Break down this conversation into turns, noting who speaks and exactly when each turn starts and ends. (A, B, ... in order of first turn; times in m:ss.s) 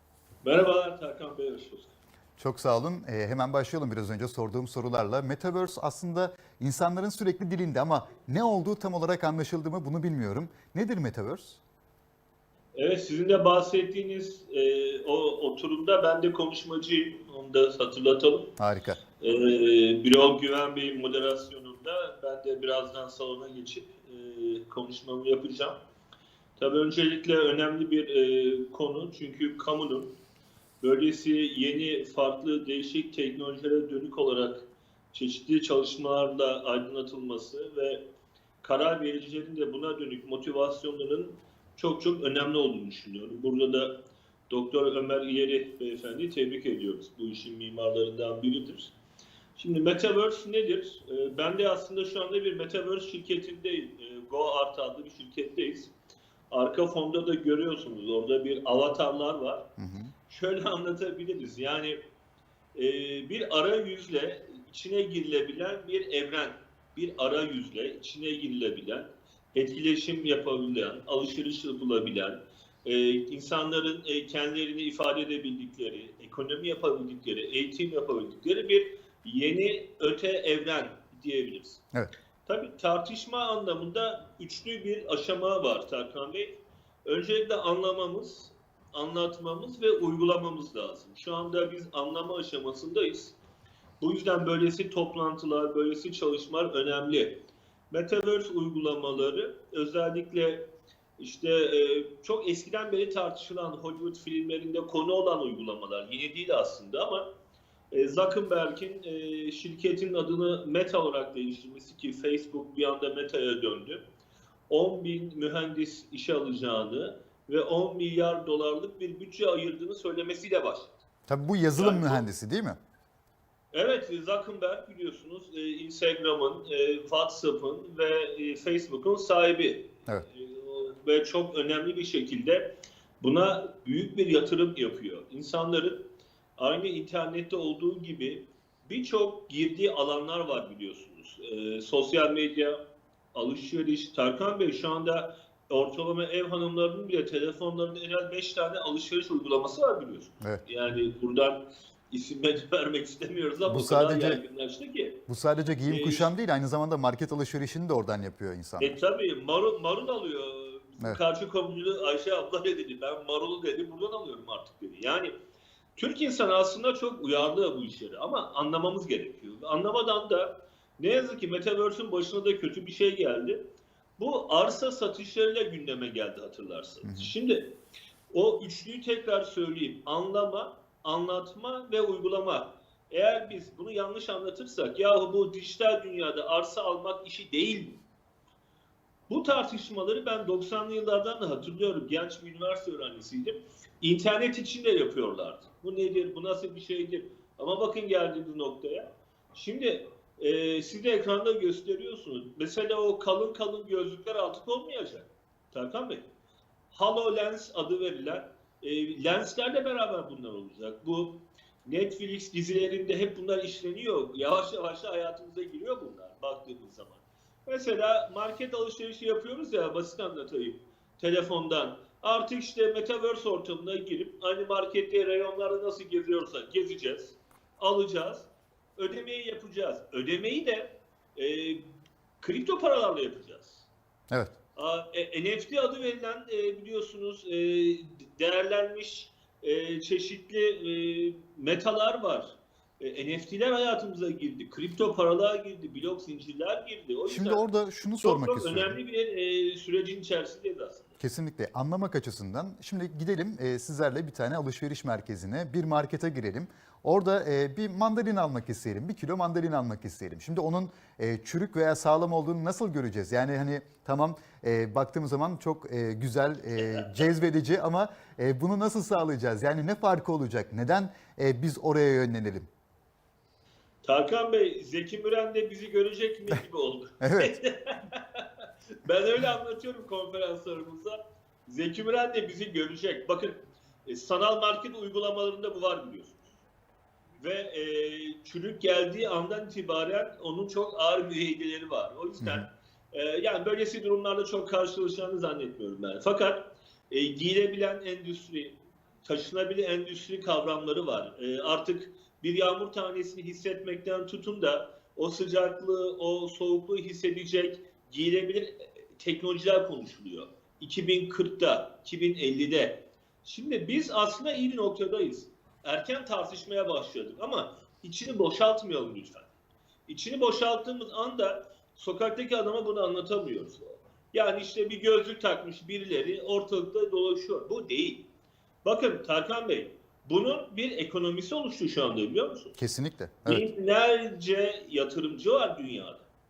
0:00.4-0:01.9 A
0:02.4-0:11.6 B
0:12.8-0:18.5 A
0:18.6-0:19.0 B
0:19.2-0:25.8 A
0:26.6-0:30.1 A
0:30.8-0:38.0 A
0:38.6-0:43.9 A
0:44.5-0:48.9 A
0:49.6-0:55.9 A
0:56.5-0:59.6 A
0:59.8-1:00.1 B
1:00.3-1:02.0 A
1:02.8-1:21.8 A
1:22.5-1:33.4 A
1:34.0-1:37.4 A
1:37.9-1:40.6 A
1:41.2-1:47.3 A
1:47.9-1:54.0 A
1:54.7-2:00.9 A
2:01.3-2:02.8 B
2:01.8-2:02.2 A
2:03.7-2:12.7 A
2:13.2-2:16.0 A
2:16.6-2:22.8 A
2:23.3-2:35.2 A
2:33.7-2:34.4 B
2:35.3-2:38.9 B
2:35.9-2:36.3 A
2:38.8-2:45.3 A
2:46.0-2:53.6 A
2:54.2-2:57.7 A
2:57.0-2:57.3 B
2:58.3-3:08.0 A
3:09.3-3:26.3 A
3:26.9-3:51.8 A
3:52.4-3:53.9 A
3:54.8-4:07.7 A
4:07.3-4:09.0 B
4:08.2-4:11.1 A
4:11.2-4:32.7 B
4:34.0-4:38.5 A
4:37.2-4:37.6 B
4:39.0-4:46.5 A
4:47.4-5:19.5 A
5:20.1-5:28.2 A
5:28.8-5:32.8 A
5:32.8-5:33.6 B
5:33.5-5:36.3 A